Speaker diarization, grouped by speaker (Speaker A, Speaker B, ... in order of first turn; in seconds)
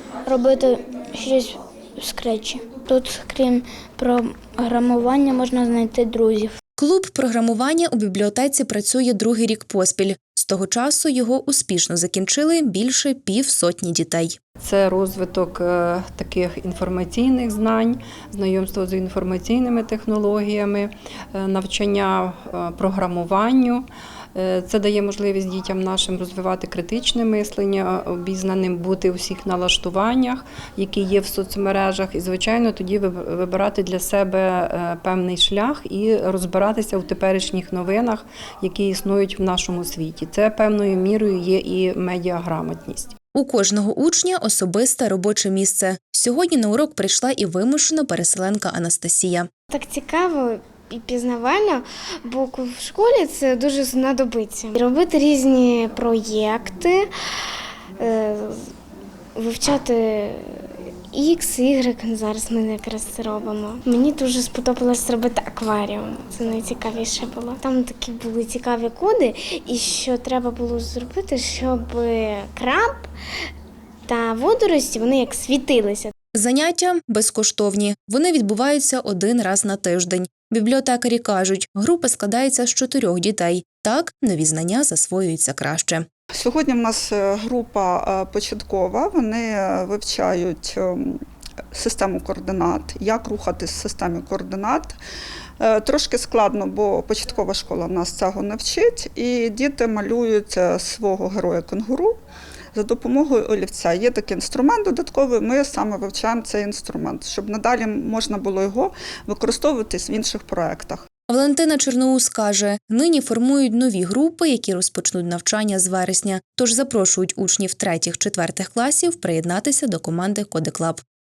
Speaker A: 0.2-6.5
Speaker B: 6.8-14.4, 43.4-49.5, 76.3-86.1, 111.3-121.0
Speaker C: 14.6-43.2
Speaker D: 49.7-57.1, 58.0-58.7, 59.4-73.1, 74.1-76.1
Speaker E: 86.3-91.2, 91.7-95.0, 95.6-102.2, 102.7-111.1